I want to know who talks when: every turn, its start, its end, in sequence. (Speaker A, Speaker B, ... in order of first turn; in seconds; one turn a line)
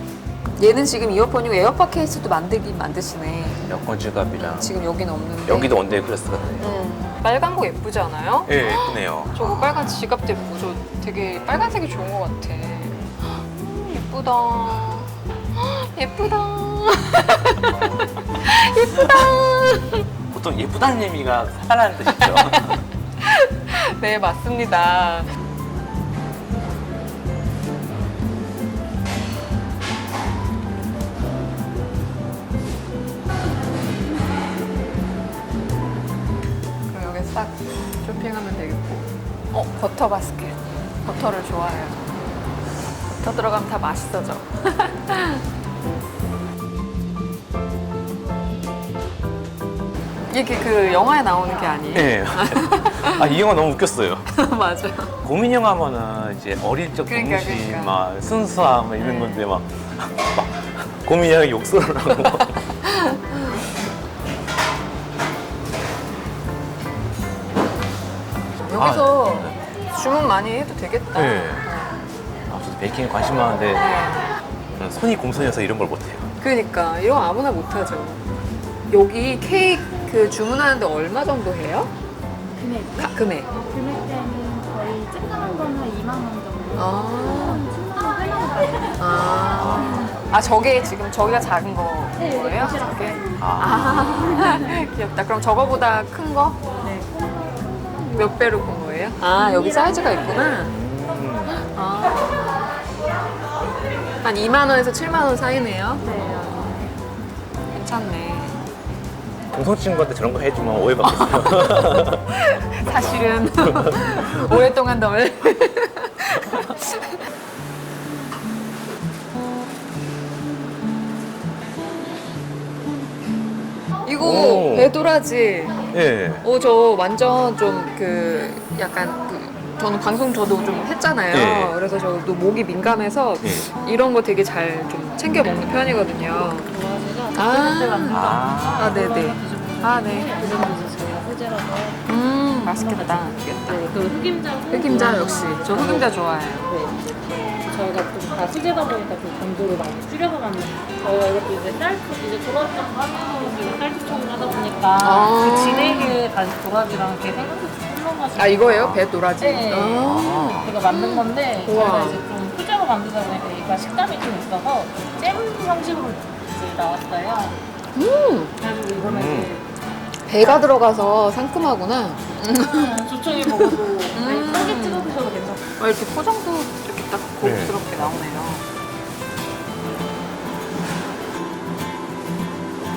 Speaker A: 0.6-3.7
Speaker B: 3.7-4.7
Speaker A: 4.4-5.8
Speaker B: 5.5-6.7
Speaker A: 6.6-20.0
Speaker B: 8.5-9.8
Speaker B: 20.3-22.8
Speaker A: 22.2-25.3
Speaker A: 36.9-42.2
Speaker A: 43.1-45.4
Speaker A: 50.3-53.4
Speaker B: 51.9-54.3
Speaker A: 54.3-55.1
Speaker B: 55.2-62.6
Speaker A: 57.1-58.0
Speaker A: 62.9-63.6
Speaker A: 68.6-72.0
Speaker B: 68.8-69.6
Speaker B: 71.1-71.7
Speaker B: 72.5-73.9
Speaker A: 73.7-74.2
Speaker B: 74.8-76.3
Speaker A: 76.4-78.2
Speaker A: 78.9-81.9
Speaker A: 82.9-83.6
Speaker A: 86.8-87.7
Speaker A: 89.0-96.6
Speaker B: 89.5-90.1
Speaker B: 93.4-94.3
Speaker A: 98.1-100.8
Speaker B: 100.6-101.6
Speaker A: 101.7-102.5
Speaker A: 104.2-106.8
Speaker A: 107.7-108.6
Speaker B: 109.5-112.2
Speaker A: 111.0-117.1
Speaker A: 124.0-125.8
Speaker B: 124.2-124.9
Speaker B: 125.9-126.5
Speaker A: 126.4-136.7
Speaker B: 131.3-131.8
Speaker C: 136.4-142.0
Speaker A: 137.3-140.7
Speaker B: 138.1-139.0
Speaker A: 142.1-143.9
Speaker C: 142.8-146.1
Speaker A: 144.7-146.7
Speaker C: 146.7-167.6
Speaker A: 155.0-156.2
Speaker A: 158.3-162.2
Speaker B: 160.0-160.8
Speaker A: 167.9-168.5
Speaker C: 168.6-169.7
Speaker B: 169.0-169.5
Speaker A: 170.3-175.2
Speaker C: 170.4-170.7
Speaker C: 172.6-175.6
Speaker A: 175.8-178.7
Speaker B: 177.4-178.3